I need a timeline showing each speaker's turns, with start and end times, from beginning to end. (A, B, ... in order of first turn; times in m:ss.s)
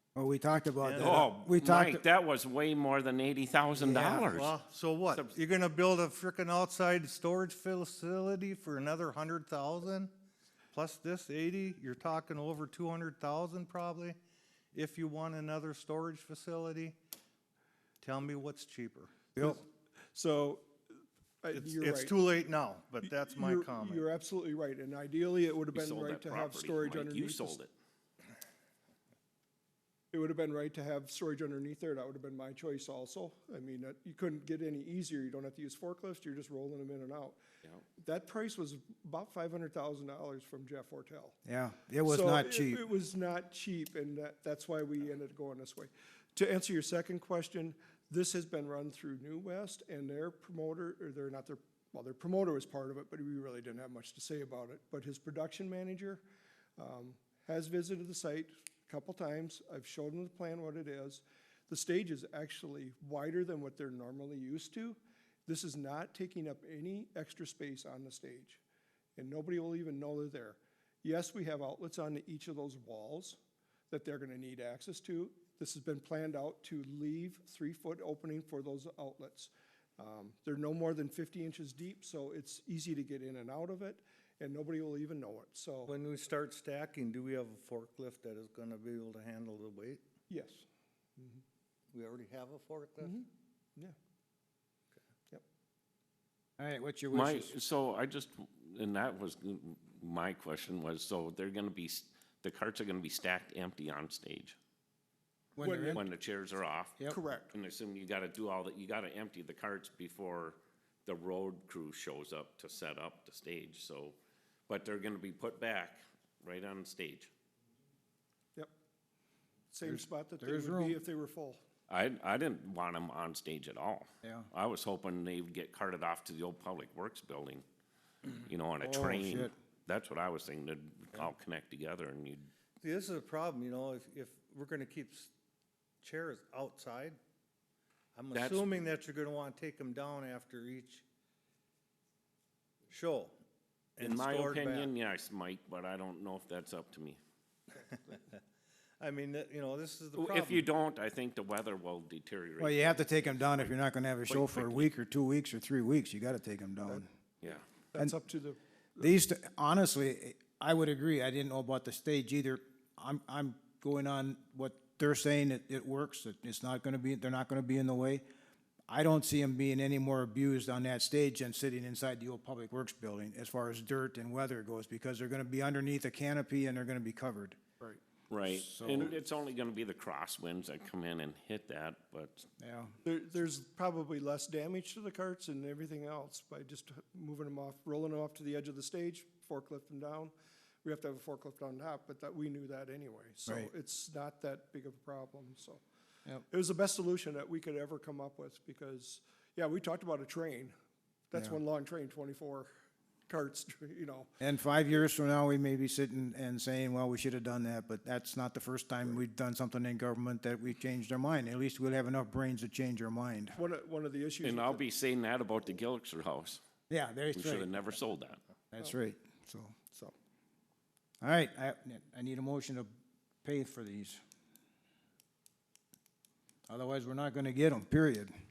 0:00.1-0:02.0 A
0:00.8-0:01.3 B
0:01.0-0:04.5 C
0:03.8-0:04.3 A
0:04.1-0:10.1 B
0:10.7-0:14.2 B
0:14.7-0:17.0 B
0:18.0-0:19.1 B
0:19.4-0:20.7 D
0:21.4-0:22.2 D
0:21.5-0:24.0 B
0:23.0-0:27.6 D
0:25.7-0:27.7 C
0:30.1-0:37.4 D
0:38.0-0:41.3 D
0:41.4-0:42.8 A
0:42.0-0:56.2 D
0:56.8-1:08.6 D
1:09.2-1:13.4 D
1:13.9-1:25.9 D
1:25.9-1:30.0 B
1:30.3-1:30.6 D
1:31.2-1:31.4 D
1:31.9-1:33.2 B
1:36.6-1:37.5 A
1:37.1-1:44.6 C
1:45.6-1:46.0 A
1:45.6-1:46.0 D
1:45.9-1:47.0 C
1:47.1-1:47.5 D
1:47.5-1:54.2 C
1:54.7-1:57.3 C
1:59.7-2:01.6 D
1:59.8-2:01.0 A
2:01.9-2:07.6 C
2:04.2-2:04.5 A
2:08.4-2:12.5 C
2:08.8-2:09.5 A
2:12.8-2:15.3 B
2:16.0-2:17.2 B
2:18.1-2:21.0 B
2:18.3-2:18.6 C
2:22.9-2:23.4 B
2:24.0-2:24.9 B
2:24.0-2:27.2 C
2:29.0-2:30.7 B
2:30.2-2:33.7 C
2:32.6-2:37.1 A
2:34.3-2:34.9 C
2:37.9-2:39.1 D
2:39.0-2:48.2 A
2:48.9-2:57.6 A
2:58.3-3:02.5 C
2:58.4-2:59.2 A
3:02.6-3:02.9 A
3:03.0-3:15.8 D
3:16.5-3:20.7 D
3:21.3-3:22.7 D
3:23.3-3:24.3 D
3:24.4-3:33.6 A
3:33.5-3:34.9 D
3:34.4-3:36.6 C
3:36.9-3:37.7 A
3:37.3-3:38.4 C
3:38.7-3:39.8 A
3:41.2-3:42.9 A
3:43.4-3:44.2 A
3:46.7-3:48.3 A